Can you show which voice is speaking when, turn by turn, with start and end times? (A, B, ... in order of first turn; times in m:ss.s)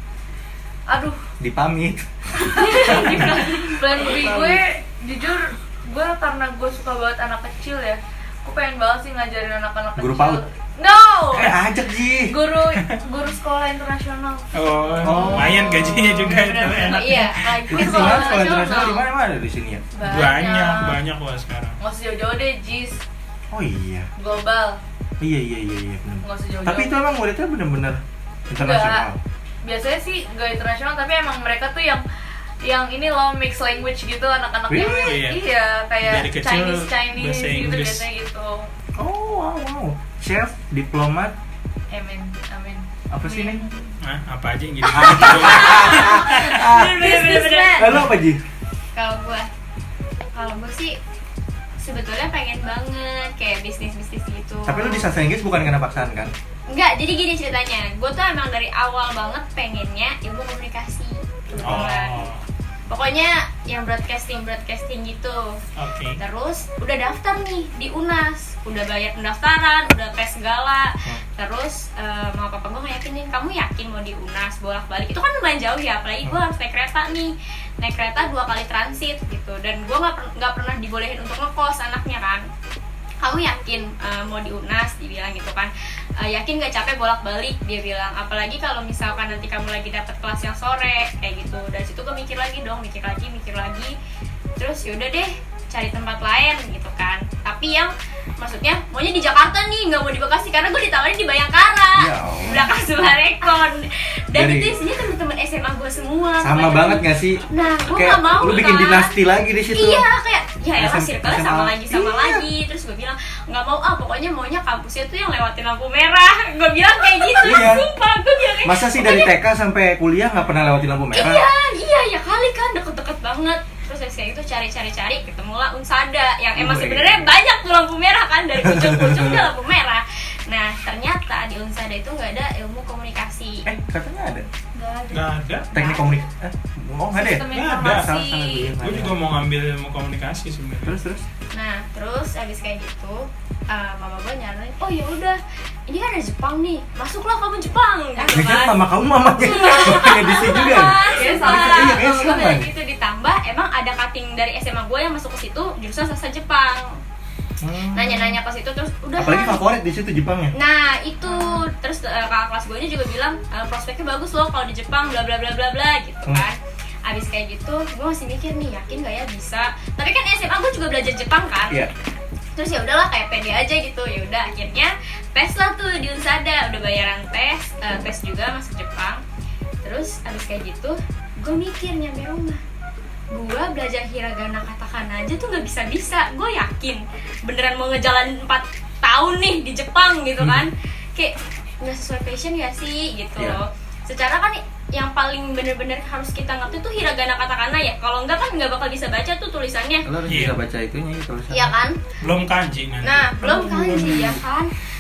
0:00.9-0:01.3 A
0:01.4-0:03.4 B
0:02.4-0:11.6 A
0:04.0-0:04.6 B
0:10.0-0:10.4 B
0:11.3-0:12.4 B
0:12.2-0:19.0 A
0:14.5-0:17.4 C
0:15.0-0:15.9 B
0:16.6-0:19.0 D
0:17.7-0:19.8 B
0:20.0-0:21.0 A
0:20.0-0:21.8 C
0:21.8-0:23.0 A
0:23.5-0:24.1 B
0:24.2-0:24.8 A
0:25.2-0:29.2 B
0:26.2-0:27.0 A
0:28.6-0:29.1 A
0:29.6-0:32.0 A
0:32.6-0:38.7 A
0:34.7-0:35.1 B
0:34.8-0:35.4 C
0:36.0-0:38.1 C
0:39.0-0:41.4 B
0:41.9-0:43.9 A
0:43.1-0:43.6 B
0:44.0-0:46.6 C
0:44.9-0:48.0 A
0:44.9-0:48.4 B
0:45.5-0:45.8 D
0:46.4-0:48.1 D
0:49.0-0:49.5 D
0:50.3-0:51.0 D
0:51.8-0:55.1 D
0:54.7-0:56.3 B
0:56.7-1:02.3 D
1:01.5-1:01.9 B
1:01.6-1:02.4 C
1:02.9-1:05.6 D
1:05.8-1:06.2 C
1:06.2-1:22.4 D
1:23.2-1:34.0 D
1:34.6-1:49.2 D
1:42.0-1:42.7 B
1:44.3-1:44.8 B
1:46.4-1:50.0 B
1:49.7-1:59.3 D
1:50.8-1:52.4 B
1:57.4-1:57.9 B
1:58.6-2:01.4 B
2:01.1-2:13.7 D
2:06.6-2:07.3 B
2:08.6-2:09.5 B
2:13.6-2:14.5 B
2:14.8-2:15.1 A
2:15.1-2:15.7 C
2:15.7-2:19.2 B
2:15.7-2:16.1 D
2:17.1-2:18.7 A
2:17.5-2:18.1 C
2:18.8-2:21.0 C
2:20.8-2:21.2 B
2:21.5-2:28.8 D
2:28.2-2:32.7 B
2:29.4-2:36.9 D
2:31.2-2:32.1 A
2:37.6-2:38.4 B
2:37.9-2:39.6 D
2:39.2-2:40.5 B
2:40.5-2:51.8 D
2:41.3-2:41.7 A
2:52.6-2:59.2 D
2:59.8-3:02.6 D
3:03.3-3:20.1 D
3:20.0-3:21.8 B
3:20.3-3:20.6 C
3:21.5-3:22.0 D
3:22.2-3:23.3 C
3:23.0-3:24.7 D
3:23.4-3:24.4 B